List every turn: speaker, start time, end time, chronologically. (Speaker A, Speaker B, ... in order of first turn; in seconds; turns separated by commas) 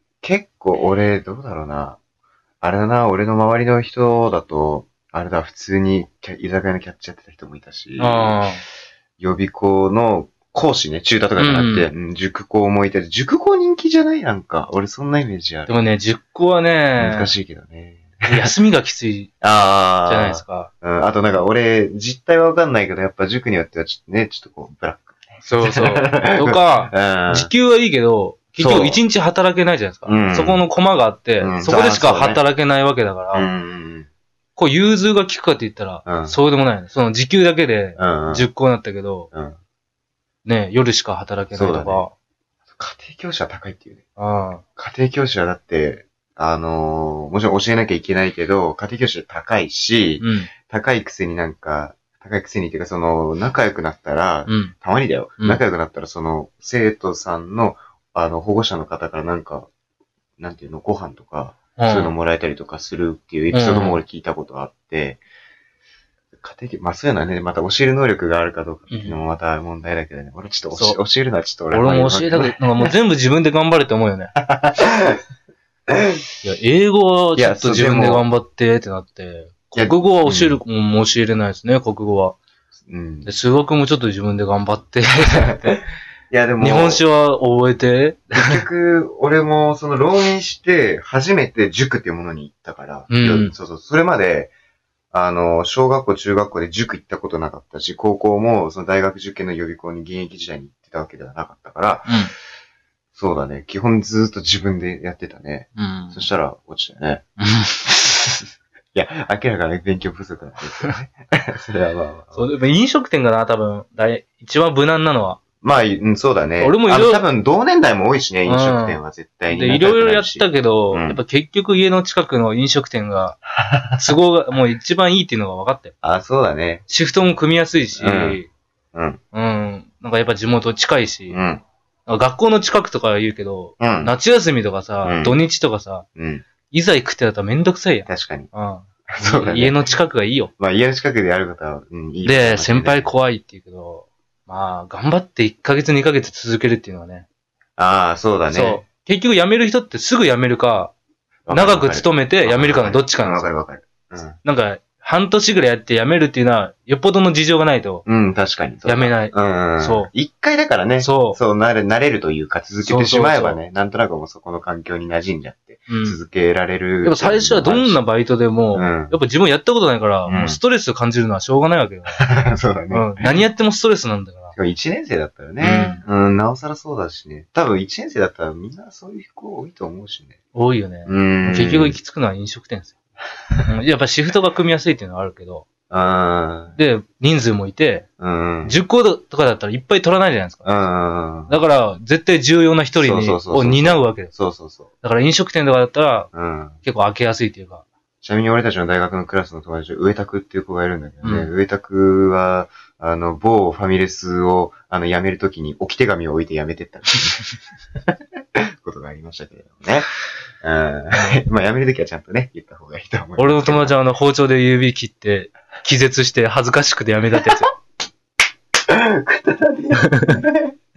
Speaker A: 0.2-2.0, Speaker A: 2.6-8.4, Speaker B: 8.0-8.6, Speaker A: 9.2-15.9, Speaker B: 11.4-11.9, Speaker B: 15.7-17.3, Speaker A: 17.0-18.5, Speaker B: 18.3-19.3, Speaker A: 19.4-27.5, Speaker B: 20.1-20.7, Speaker B: 25.4-33.5, Speaker A: 28.6-29.0, Speaker A: 30.1-30.6, Speaker A: 31.4-32.4, Speaker A: 33.3-34.1, Speaker B: 34.5-39.3, Speaker A: 36.0-36.4, Speaker A: 38.0-38.5, Speaker B: 40.4-42.1, Speaker A: 41.5-42.0, Speaker A: 42.8-44.0, Speaker B: 44.2-44.6, Speaker A: 44.8-59.7, Speaker B: 50.2-50.5, Speaker B: 54.5-54.7, Speaker A: 60.4-65.2, Speaker B: 61.8-62.1, Speaker B: 63.5-64.0, Speaker A: 66.4-72.9, Speaker B: 68.9-69.2, Speaker B: 71.7-74.3, Speaker A: 74.4-75.2, Speaker A: 75.9-76.2, Speaker B: 76.4-82.3, Speaker A: 77.3-78.2, Speaker A: 79.8-80.6, Speaker A: 82.8-83.3, Speaker B: 83.2-85.8, Speaker A: 85.3-87.0, Speaker B: 86.6-88.6, Speaker A: 88.3-94.5, Speaker B: 93.1-93.5, Speaker A: 95.1-102.2, Speaker B: 102.0-102.3, Speaker A: 103.1-107.3, Speaker B: 105.8-106.3, Speaker B: 107.4-107.8, Speaker A: 107.8-112.5, Speaker B: 112.3-115.4, Speaker A: 115.6-121.2, Speaker B: 116.6-117.2, Speaker B: 118.5-123.4, Speaker A: 123.6-124.2, Speaker B: 124.0-125.9, Speaker A: 126.0-126.8, Speaker B: 126.9-128.5, Speaker A: 128.0-128.4, Speaker A: 128.9-129.2, Speaker B: 129.3-131.4, Speaker A: 131.3-131.6, Speaker B: 132.1-136.0, Speaker A: 133.8-134.2, Speaker A: 135.0-135.4, Speaker A: 136.2-136.4, Speaker B: 136.7-140.5, Speaker A: 138.1-138.5, Speaker A: 139.1-139.8, Speaker A: 140.6-143.1, Speaker B: 142.2-147.2, Speaker A: 147.8-148.8, Speaker B: 148.5-150.9, Speaker A: 151.5-154.4, Speaker B: 151.5-153.5, Speaker B: 154.4-158.0, Speaker A: 158.1-168.0, Speaker B: 158.8-160.1, Speaker B: 161.0-161.4, Speaker B: 162.8-163.6, Speaker B: 165.9-166.2, Speaker B: 167.0-172.3, Speaker A: 168.7-169.2, Speaker A: 170.2-170.6, Speaker A: 172.2-173.4, Speaker B: 172.9-174.5, Speaker A: 174.6-180.3, Speaker B: 175.6-176.0, Speaker B: 180.5-182.9, Speaker A: 181.1-182.0, Speaker B: 183.7-185.7, Speaker A: 185.9-186.8, Speaker B: 186.7-188.1, Speaker A: 188.2-188.8, Speaker B: 188.6-190.7, Speaker A: 190.6-191.6, Speaker B: 191.5-194.3, Speaker A: 192.9-194.9, Speaker B: 195.0-196.3, Speaker A: 196.3-196.8, Speaker B: 196.8-197.8, Speaker A: 198.2-207.5, Speaker B: 201.2-201.5, Speaker A: 208.5-214.0, Speaker B: 213.4-217.7, Speaker A: 218.8-220.7, Speaker B: 219.9-220.4